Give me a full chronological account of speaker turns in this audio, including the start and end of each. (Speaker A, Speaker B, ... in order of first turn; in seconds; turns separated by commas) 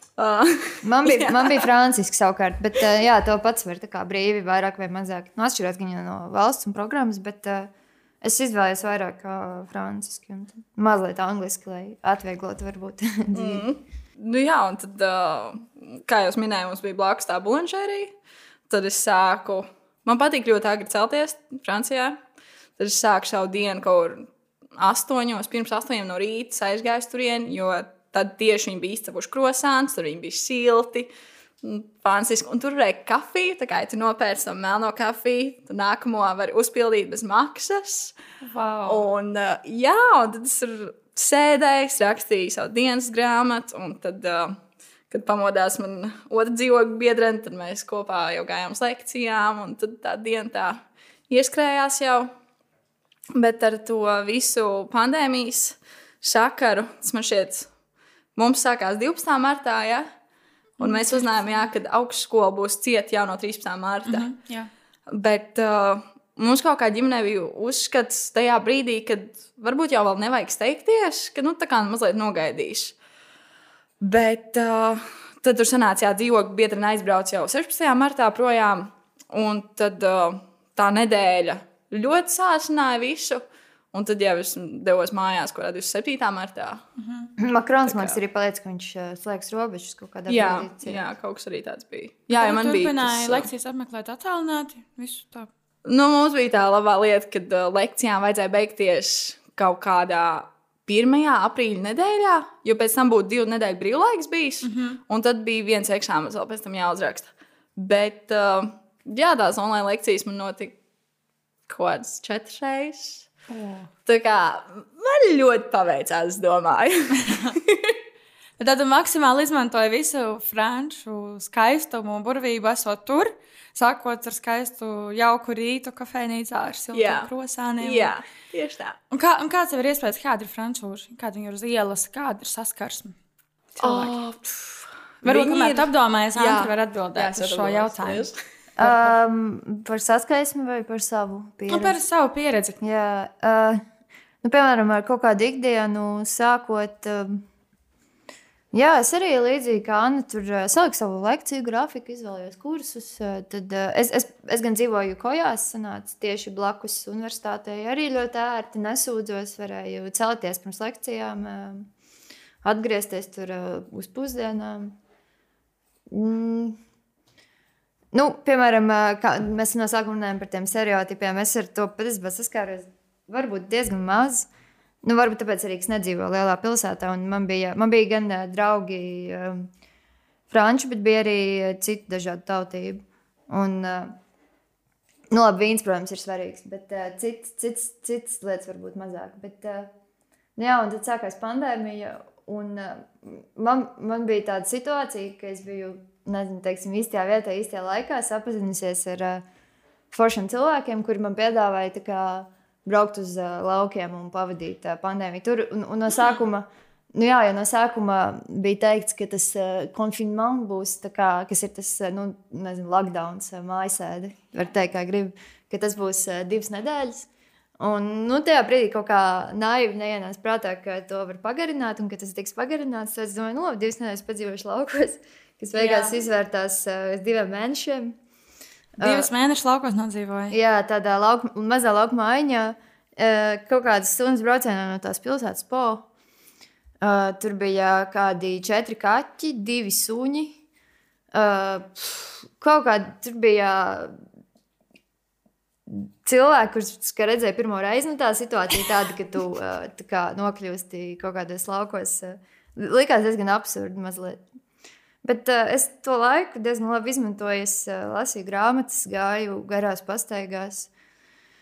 Speaker A: 0.2-1.7, Speaker B: 0.8-13.7, Speaker A: 13.3-18.1, Speaker A: 18.7-22.2, Speaker A: 22.8-31.1, Speaker A: 31.6-38.1, Speaker C: 38.4-39.0, Speaker A: 38.9-44.6, Speaker A: 45.1-50.8, Speaker A: 51.3-52.3, Speaker A: 53.4-57.7, Speaker A: 58.4-60.1, Speaker A: 60.8-64.3, Speaker C: 60.8-61.2, Speaker C: 64.1-64.7, Speaker A: 65.1-73.0, Speaker A: 74.0-86.8, Speaker C: 87.0-87.3, Speaker B: 87.4-91.0, Speaker A: 87.9-88.2, Speaker A: 90.3-93.5, Speaker C: 92.3-95.5, Speaker A: 95.8-110.8, Speaker C: 104.6-105.0, Speaker A: 111.7-113.3, Speaker C: 113.5-113.9, Speaker A: 114.1-118.0, Speaker C: 118.6-128.1, Speaker A: 126.9-129.0, Speaker C: 129.1-133.2, Speaker C: 133.8-134.2, Speaker A: 133.8-138.3, Speaker C: 135.2-138.3, Speaker B: 138.8-142.0, Speaker C: 138.8-139.1, Speaker C: 141.7-142.8, Speaker B: 142.8-143.8, Speaker B: 144.4-147.4, Speaker B: 148.7-161.9, Speaker B: 162.6-165.0, Speaker B: 166.1-166.8, Speaker B: 168.1-174.5, Speaker B: 175.0-179.7, Speaker B: 180.5-184.1, Speaker B: 185.3-189.9, Speaker B: 190.6-199.4, Speaker B: 200.1-217.3, Speaker B: 217.8-228.2, Speaker C: 225.7-226.2, Speaker B: 229.0-229.3, Speaker C: 229.0-230.6, Speaker B: 230.5-236.1, Speaker B: 237.0-240.6, Speaker B: 241.3-244.1, Speaker B: 245.9-254.4, Speaker B: 255.2-260.9